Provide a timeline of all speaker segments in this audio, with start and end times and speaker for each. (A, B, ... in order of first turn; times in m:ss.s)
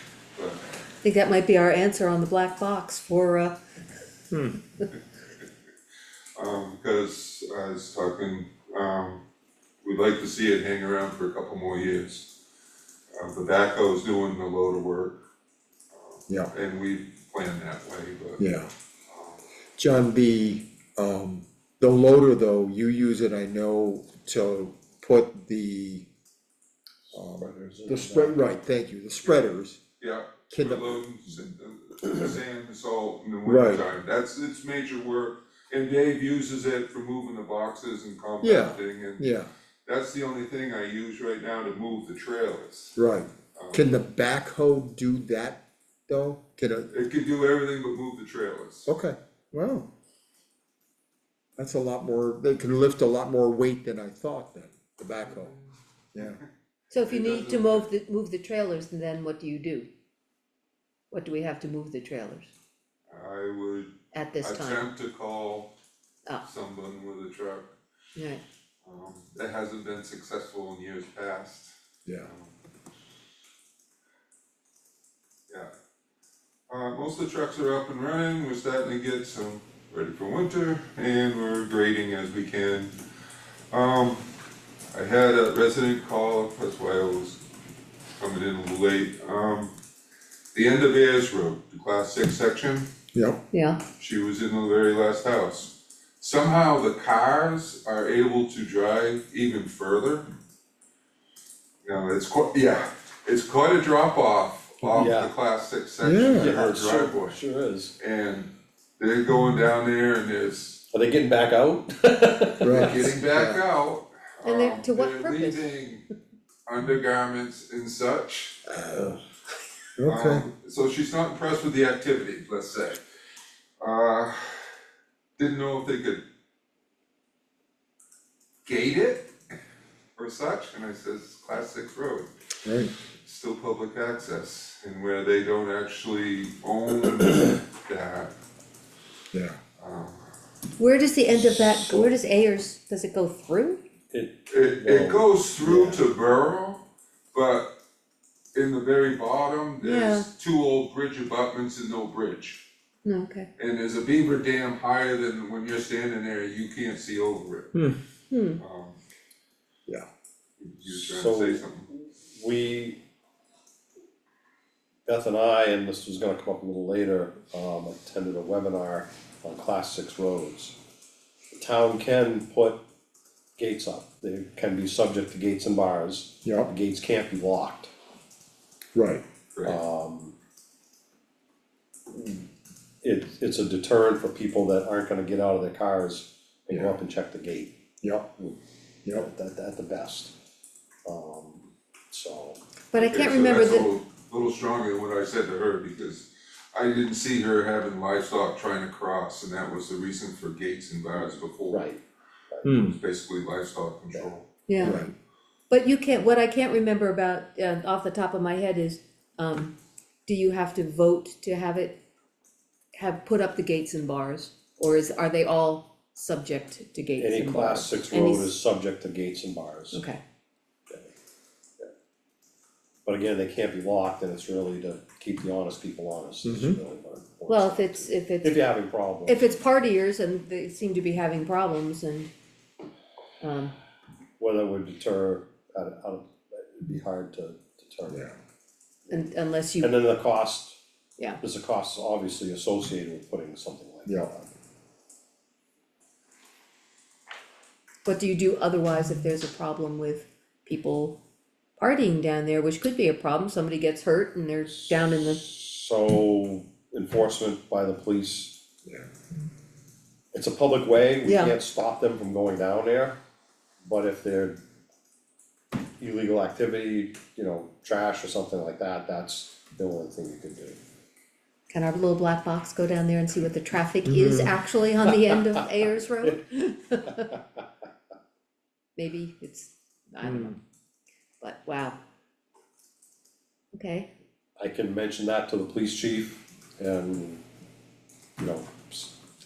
0:00.3-0:00.6 A
0:01.0-0:03.6 B
0:06.4-0:09.2 A
0:09.8-0:12.3 A
0:13.2-0:15.2 A
0:15.9-0:18.4 A
0:18.4-0:18.7 C
0:19.1-0:19.4 A
0:19.8-0:26.1 C
0:27.1-0:28.6 D
0:27.1-0:29.8 C
0:30.0-0:39.3 A
0:30.5-0:31.0 C
0:33.5-0:33.8 C
0:38.4-0:39.5 C
0:39.9-0:43.0 A
0:43.0-0:46.9 C
0:43.6-0:43.9 A
0:46.9-0:48.9 A
0:48.9-0:49.9 C
0:51.6-0:55.6 C
0:55.2-0:55.7 A
0:56.9-0:59.9 B
0:57.1-0:57.9 A
1:01.1-1:02.5 B
1:03.1-1:05.7 A
1:04.1-1:04.8 B
1:06.4-1:07.7 A
1:08.2-1:08.4 B
1:08.8-1:12.6 A
1:16.7-1:22.9 A
1:23.7-1:24.3 A
1:24.9-1:27.4 A
1:28.2-1:29.7 A
1:30.5-1:32.9 A
1:33.5-1:33.8 B
1:34.0-1:40.3 A
1:41.8-1:47.4 A
1:44.9-1:45.3 D
1:46.0-1:46.6 C
1:46.3-1:47.9 D
1:48.0-1:50.8 A
1:50.9-1:53.0 D
1:52.6-1:53.6 C
1:52.7-1:56.0 A
1:52.8-1:53.0 B
1:54.4-1:55.7 B
1:56.7-1:58.6 A
1:58.7-1:59.2 C
2:00.0-2:00.5 C
2:00.1-2:03.0 A
2:03.8-2:04.7 A
2:05.4-2:06.2 A
2:08.6-2:09.3 A
2:10.2-2:12.3 A
2:12.6-2:12.9 C
2:13.2-2:18.3 A
2:19.3-2:19.6 C
2:19.8-2:20.3 A
2:20.8-2:23.8 B
2:21.8-2:22.1 D
2:24.1-2:26.1 D
2:24.5-2:27.7 A
2:28.6-2:32.6 A
2:29.8-2:30.3 B
2:33.0-2:33.5 B
2:33.6-2:37.8 A
2:38.3-2:38.6 B
2:38.6-2:39.0 A
2:40.6-2:41.9 A
2:40.9-2:43.0 D
2:45.1-2:50.8 D
2:51.5-2:52.8 D
2:53.6-2:57.9 D
2:56.4-2:56.7 C
2:59.0-2:59.2 C
2:59.6-2:59.8 A
2:59.6-3:00.4 D
3:02.1-3:02.4 D
3:03.0-3:07.8 D
3:06.7-3:07.0 C
3:08.0-3:08.3 C
3:09.1-3:10.3 D
3:11.0-3:12.6 D
3:12.9-3:13.9 B
3:13.0-3:21.9 A
3:21.7-3:22.0 D
3:22.5-3:22.8 D
3:22.6-3:22.9 C
3:22.7-3:24.4 A
3:24.7-3:25.1 B
3:24.8-3:25.1 C
3:25.7-3:29.7 B
3:30.3-3:32.0 B
3:32.9-3:38.5 B
3:37.2-3:40.0 D
3:39.9-3:40.2 B
3:43.0-3:49.4 D
3:46.4-3:46.8 C
3:47.5-3:48.6 B
3:49.2-3:52.3 B
3:53.4-3:53.8 B
3:54.4-3:58.3 D
3:59.1-3:59.9 B
3:59.8-4:00.8 D
4:01.4-4:04.5 D
4:08.0-4:11.2 B
4:11.8-4:15.4 B
4:15.2-4:18.6 D
4:20.3-4:23.2 D
4:21.2-4:21.6 B
4:23.8-4:24.6 D
4:26.0-4:30.8 D
4:31.7-4:37.3 B
4:34.1-4:34.6 C
4:37.2-4:37.7 D
4:39.0-4:40.6 B
4:41.4-4:42.0 B
4:43.7-4:44.1 B
4:44.6-4:47.4 D
4:48.4-4:49.1 D